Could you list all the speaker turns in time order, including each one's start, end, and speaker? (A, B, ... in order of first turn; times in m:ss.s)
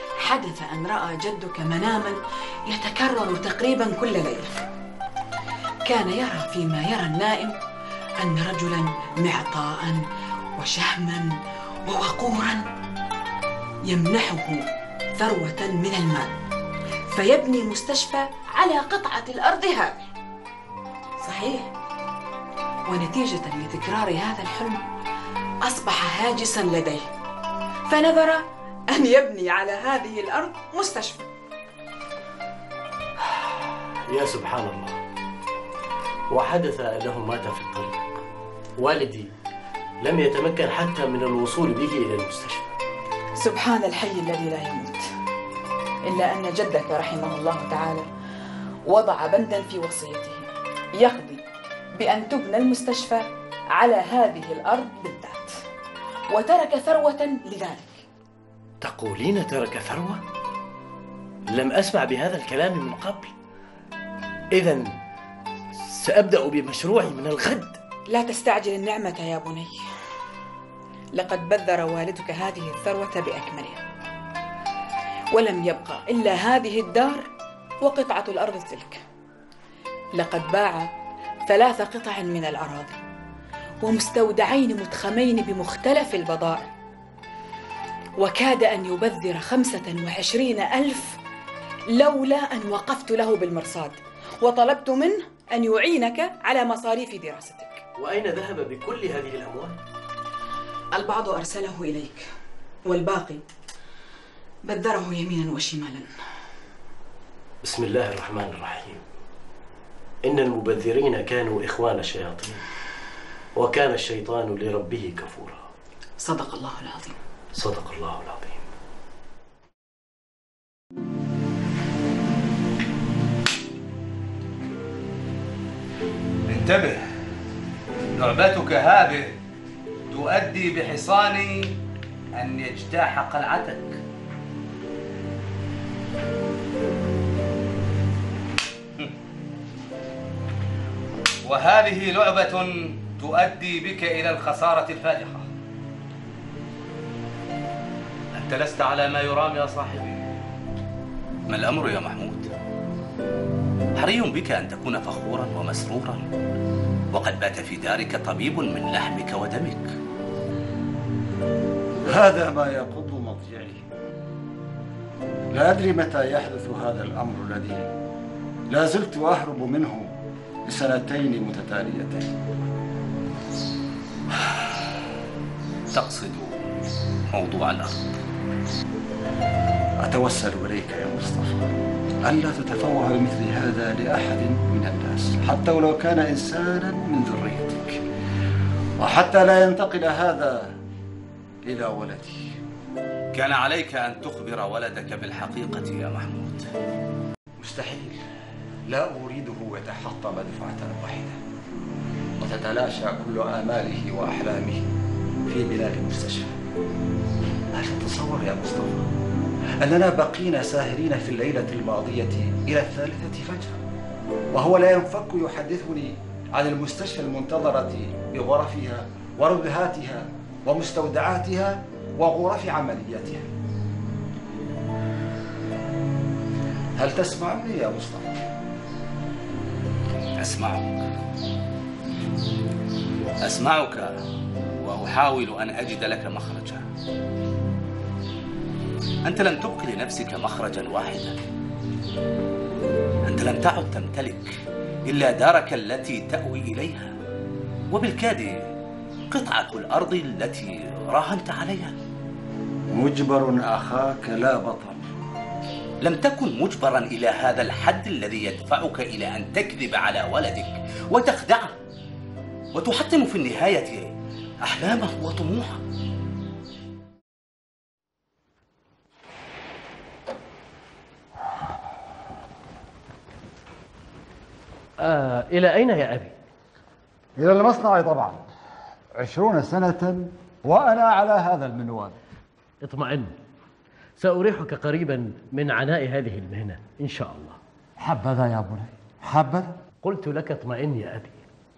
0:00.2-0:04.6 A
0:05.9-0:07.6 A
0:08.2-0:10.0 A
0:10.6-0:12.7 A
0:13.9-0:16.4 A
0:17.1-0:20.1 A
0:21.2-0:21.7 A
0:22.9-0:24.8 A
0:25.6-0:27.1 A
0:27.9-0:31.3 A
0:33.2-0:35.0 B
0:36.3-0:38.1 B
0:38.8-0:39.3 B
0:40.0-0:42.8 B
0:43.4-0:45.1 A
0:46.0-0:48.1 A
0:48.9-0:55.6 A
0:56.3-0:58.0 A
0:58.8-1:00.2 B
1:01.5-1:03.4 B
1:04.5-1:04.9 B
1:05.8-1:07.8 B
1:08.1-1:09.8 A
1:11.2-1:13.8 A
1:15.3-1:17.3 A
1:17.8-1:19.0 A
1:20.2-1:20.9 A
1:21.5-1:23.0 A
1:23.8-1:26.7 A
1:28.2-1:31.2 A
1:31.9-1:37.8 A
1:38.0-1:39.8 B
1:40.9-1:42.3 A
1:42.8-1:43.4 A
1:44.6-1:46.1 A
1:47.6-1:49.0 B
1:50.2-1:52.6 B
1:53.6-1:55.7 B
1:56.2-1:57.2 A
1:57.6-1:58.6 B
2:06.5-2:07.0 C
2:08.2-2:09.4 C
2:10.1-2:11.7 C
2:12.3-2:14.0 C
2:21.4-2:25.5 C
2:28.3-2:30.2 C
2:31.5-2:32.5 C
2:34.0-2:36.2 C
2:37.1-2:40.0 C
2:42.0-2:43.9 D
2:45.5-2:47.9 D
2:48.7-2:50.1 D
2:50.6-2:52.4 D
2:55.9-2:56.7 C
2:57.3-2:58.2 C
3:00.0-3:08.0 D
3:09.0-3:10.8 D
3:11.6-3:12.5 D
3:13.3-3:16.7 C
3:17.6-3:18.2 D
3:18.9-3:21.4 D
3:22.4-3:24.9 D
3:25.4-3:26.6 D
3:27.7-3:29.1 D
3:29.8-3:33.8 D
3:34.5-3:43.5 D
3:47.0-3:48.4 D
3:50.4-3:51.1 C
3:53.4-3:54.1 C
3:54.8-3:56.8 C
3:59.2-4:01.4 C
4:03.2-4:07.1 C
4:07.9-4:08.6 C
4:09.3-4:11.9 C
4:12.9-4:15.1 D
4:16.0-4:21.8 C
4:22.7-4:25.8 C
4:35.0-4:36.3 B
4:37.4-4:38.5 D
4:39.2-4:42.2 D
4:42.8-4:43.4 B
4:44.2-4:47.6 B
4:48.0-4:49.8 D
4:50.0-4:51.4 B